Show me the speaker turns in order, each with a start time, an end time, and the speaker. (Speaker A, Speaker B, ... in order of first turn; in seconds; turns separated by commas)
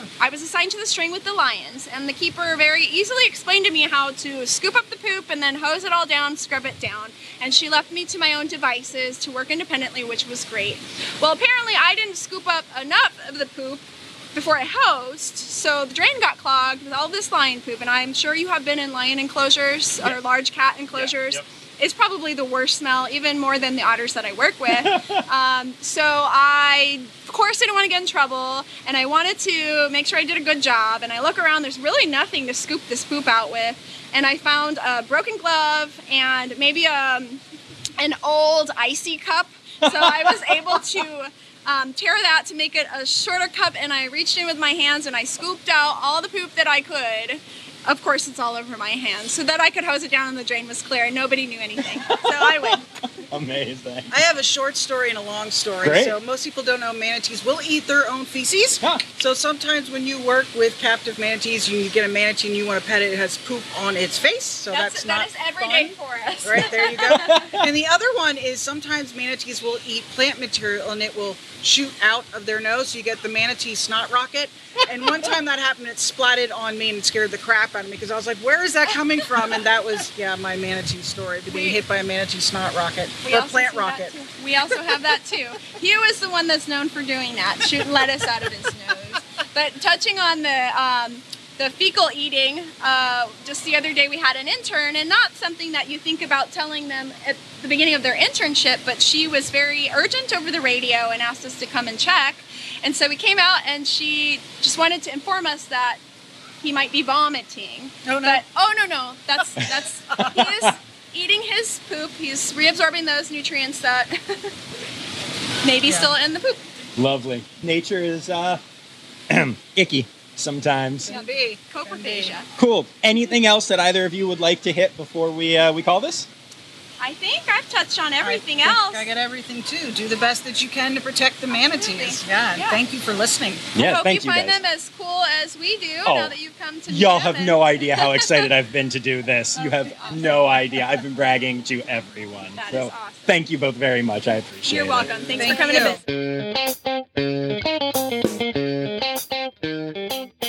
Speaker A: 0.2-13.8, Speaker A: 14.3-37.4, Speaker B: 20.9-21.4, Speaker B: 24.7-25.2, Speaker A: 38.0-52.8, Speaker B: 39.8-40.8, Speaker B: 51.9-54.1, Speaker C: 54.1-84.1, Speaker B: 55.8-56.2, Speaker A: 64.7-67.5, Speaker B: 67.0-67.7, Speaker A: 81.5-81.8, Speaker A: 83.2-106.0, Speaker A: 106.6-114.5, Speaker C: 108.0-108.4, Speaker B: 109.6-110.7, Speaker A: 115.6-116.6, Speaker B: 117.0-118.6, Speaker B: 119.3-121.1, Speaker C: 121.1-122.3, Speaker A: 121.1-122.5, Speaker B: 122.6-126.3, Speaker A: 127.0-129.1, Speaker C: 128.2-133.7, Speaker A: 131.5-132.8, Speaker B: 133.7-134.6, Speaker A: 133.7-138.5, Speaker B: 136.0-136.3, Speaker B: 136.9-145.1, Speaker A: 139.5-140.6, Speaker A: 142.5-143.2, Speaker A: 144.6-146.0, Speaker C: 145.4-146.0